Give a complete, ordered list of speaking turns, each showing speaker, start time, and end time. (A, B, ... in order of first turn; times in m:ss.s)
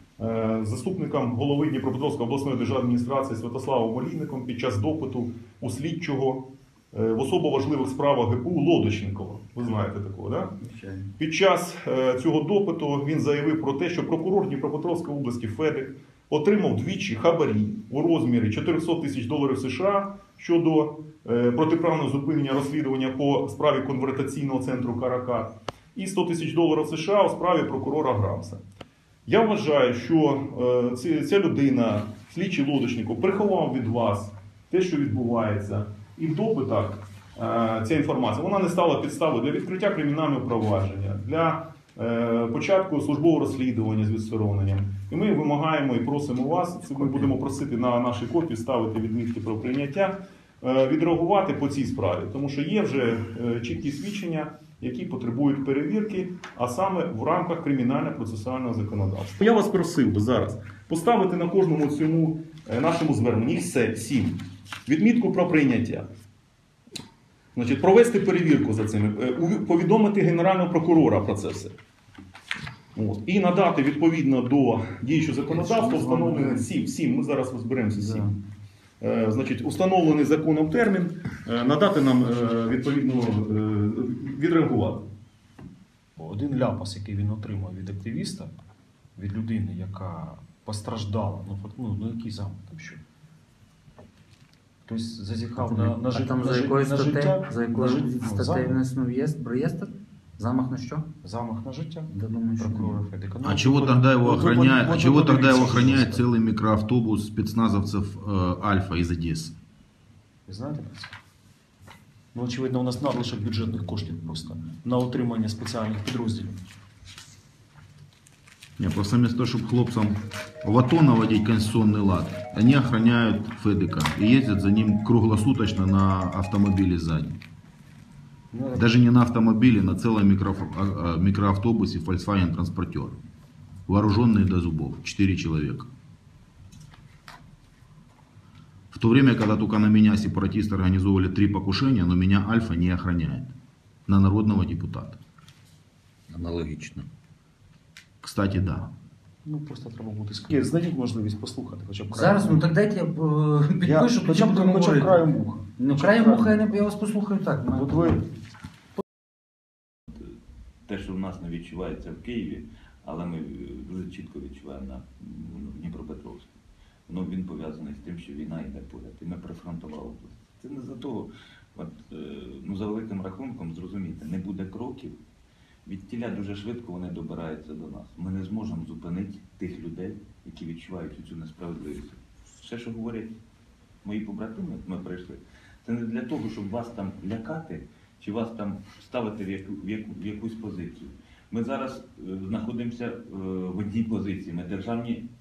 0:00.2-0:10.5 A
0:10.6-0:11.1 B
0:11.2-0:28.6 A
0:29.2-1:06.0 A
1:07.5-1:11.7 A
1:12.9-1:18.3 A
1:15.5-1:16.6 B
1:17.9-1:18.3 B
1:19.0-1:25.1 A
1:26.2-1:28.5 C
1:29.2-1:33.0 C
1:34.8-1:38.8 C
1:35.6-1:41.0 B
1:41.2-1:46.2 C
1:42.1-1:43.0 B
1:43.4-1:49.6 D
1:50.5-1:51.1 C
1:52.3-1:56.6 C
1:58.8-2:07.4 D
2:08.5-2:09.0 C
2:08.7-2:13.2 D
2:13.9-2:15.9 D
2:18.9-2:23.5 D
2:24.1-2:25.2 D
2:26.3-2:27.1 B
2:28.2-2:28.9 D
2:29.4-2:32.7 C
2:32.1-2:35.2 B
2:33.8-2:36.6 C
2:35.8-2:38.2 B
2:37.7-2:38.2 C
2:40.8-2:46.5 E
2:47.1-2:55.2 E
2:55.8-3:03.4 E
3:04.0-3:15.2 E